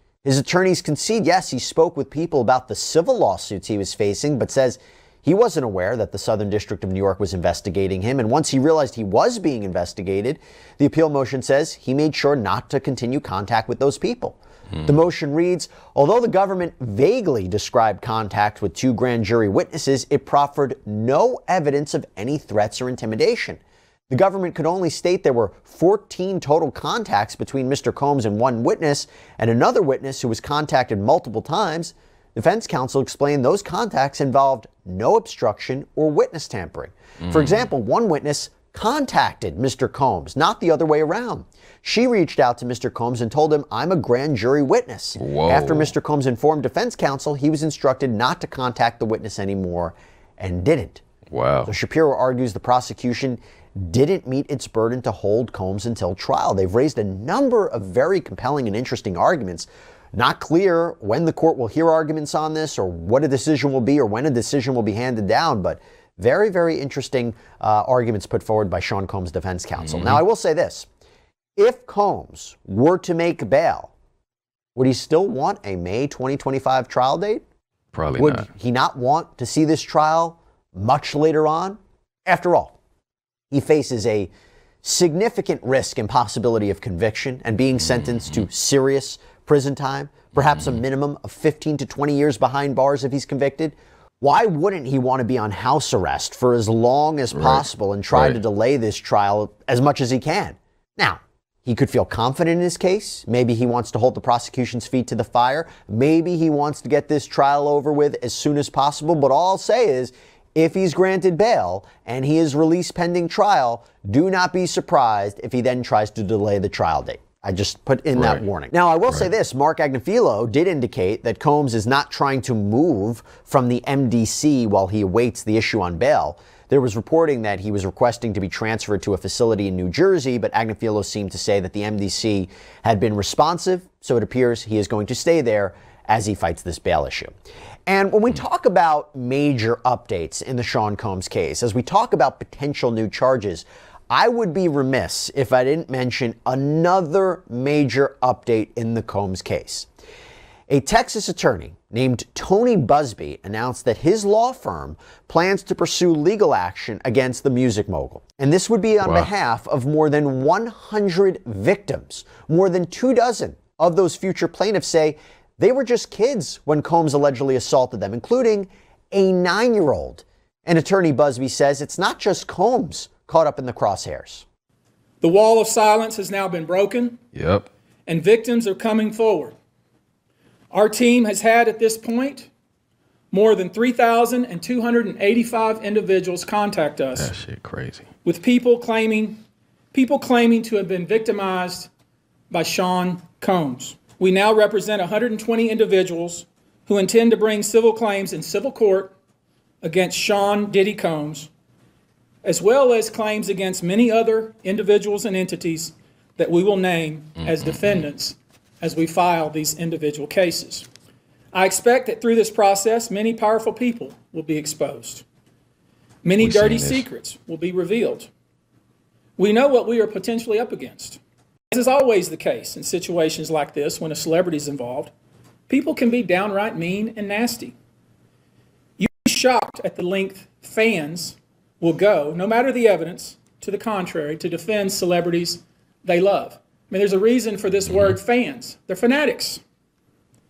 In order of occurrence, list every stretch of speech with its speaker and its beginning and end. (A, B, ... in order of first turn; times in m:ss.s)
0:00.2-0:51.0 A
0:37.2-0:37.6 B
0:45.2-0:45.9 B
0:51.3-0:51.7 B
0:51.6-1:10.9 A
1:09.8-1:10.2 B
1:11.6-1:13.9 A
1:14.8-1:17.4 A
1:17.9-1:18.5 B
1:18.2-1:22.7 A
1:23.5-1:24.3 A
1:24.8-2:17.3 A
1:37.3-1:38.4 B
1:58.2-1:58.4 B
2:17.9-2:29.9 A
2:30.7-2:54.4 A
2:39.0-2:39.3 B
2:55.2-2:57.2 C
2:57.3-2:57.7 B
2:58.1-2:59.6 C
3:00.7-3:02.5 C
3:03.3-3:07.3 C
3:07.1-3:08.1 B
3:08.2-3:11.9 C
3:12.5-3:19.1 C
3:19.8-3:21.5 C
3:22.4-3:30.9 C
3:27.4-3:28.1 B
3:31.5-3:35.2 C
3:36.2-3:38.3 C
3:36.4-3:37.1 B
3:39.4-3:41.2 C
3:41.7-3:45.1 C
3:45.7-3:47.8 C
3:49.0-3:59.6 C
3:57.8-3:58.2 B